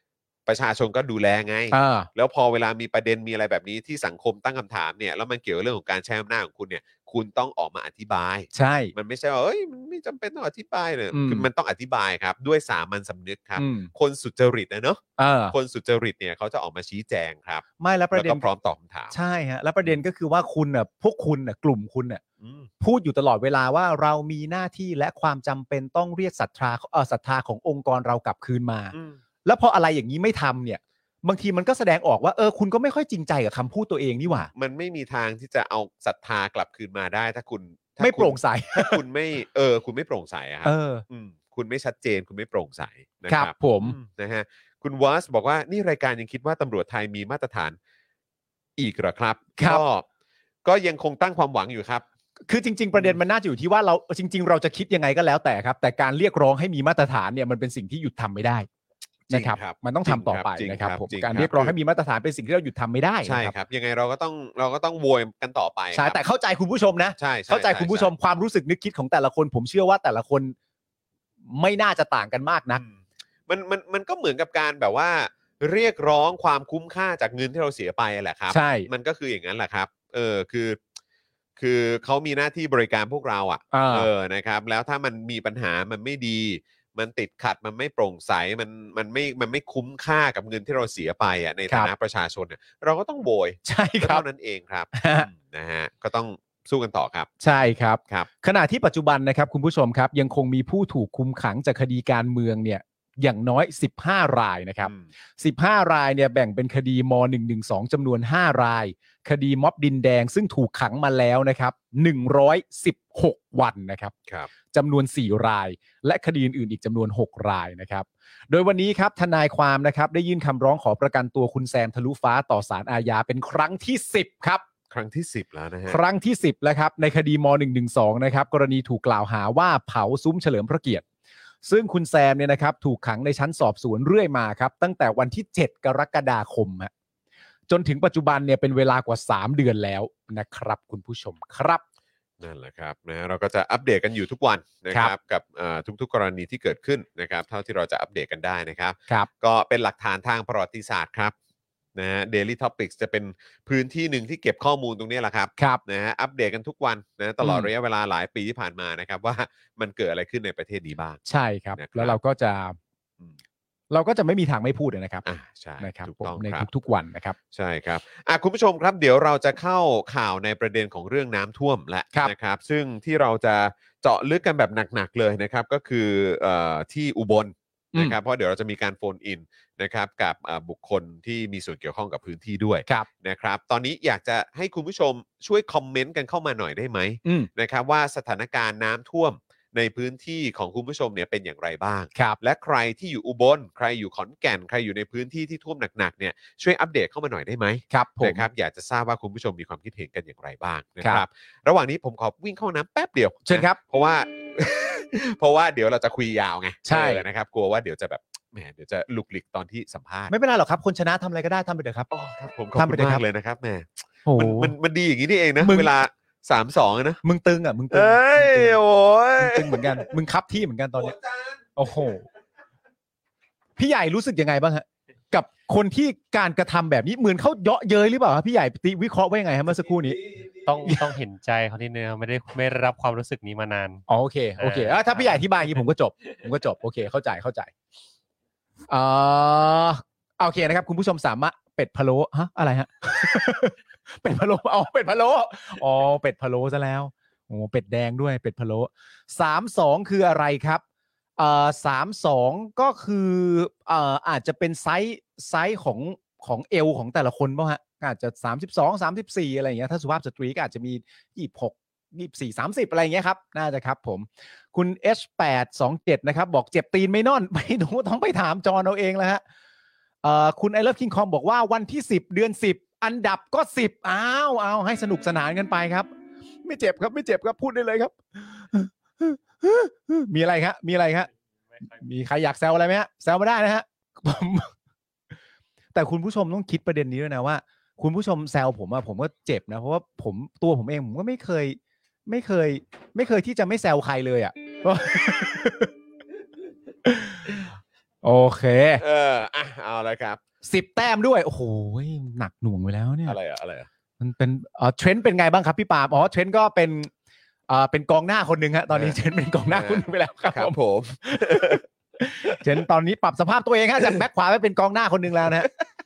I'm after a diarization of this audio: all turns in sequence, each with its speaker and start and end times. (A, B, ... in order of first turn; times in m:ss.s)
0:00.4-0:19.1 A
0:01.7-0:02.1 B
0:08.5-0:08.9 B
0:11.1-0:11.5 B
0:13.6-0:13.9 B
0:15.2-0:15.5 B
0:17.8-0:18.4 B
0:19.1-0:22.2 B
0:22.4-0:22.7 A
0:22.8-0:34.5 B
0:28.9-0:29.2 A
0:34.5-0:47.8 A
0:38.0-0:39.0 B
0:40.6-0:41.0 B
0:43.3-0:44.0 B
0:48.8-0:50.0 A
0:49.6-0:49.8 B
0:50.6-0:52.0 A
0:52.5-0:58.7 B
0:59.3-1:03.5 B
0:59.3-1:01.7 A
1:03.2-1:06.2 A
1:05.9-1:10.5 B
1:07.2-1:08.1 A
1:11.5-1:12.8 B
1:12.7-1:20.8 A
1:18.5-1:18.9 B
1:21.6-1:37.3 A
1:23.7-1:24.1 B
1:33.6-1:34.2 B
1:34.9-1:35.3 B
1:37.4-1:54.1 B
1:54.7-2:04.6 B
2:04.9-2:06.0 A
2:05.9-2:11.0 B
2:11.6-2:16.9 B
2:17.7-2:21.8 B
2:22.4-2:31.3 A
2:31.9-2:41.2 A
2:37.4-2:37.7 B
2:41.2-2:42.8 B
2:41.7-2:42.2 A
2:43.9-2:45.2 B
2:45.2-2:46.7 A
2:45.8-2:47.4 B
2:47.5-3:30.3 A
3:17.9-3:18.4 B
3:23.4-3:23.8 B
3:26.8-3:27.2 B
3:30.3-3:32.1 B
3:32.1-3:37.2 A
3:32.8-3:33.2 B
3:34.2-3:34.7 B
3:35.6-3:35.9 B
3:37.2-3:38.8 B
3:37.9-3:40.1 A
3:39.4-3:41.1 B
3:41.0-3:41.6 A
3:41.8-3:42.2 B
3:43.8-3:50.2 B
3:49.7-3:50.7 A
3:50.6-3:54.0 C
3:54.1-3:57.7 B
3:54.6-3:55.6 C
3:58.9-4:10.8 B
4:11.4-4:29.4 B
4:30.2-4:36.1 B
4:36.6-4:41.3 B
4:41.7-4:42.0 C
4:42.0-4:44.7 B
4:45.9-4:55.9 B
4:57.0-4:57.6 B
4:58.2-4:59.0 B
4:59.0-5:00.4 A
5:00.6-5:03.4 B
5:03.2-5:03.9 A
5:04.2-5:07.1 B
5:07.7-5:15.7 B
5:08.9-5:11.8 A
5:12.4-5:12.7 A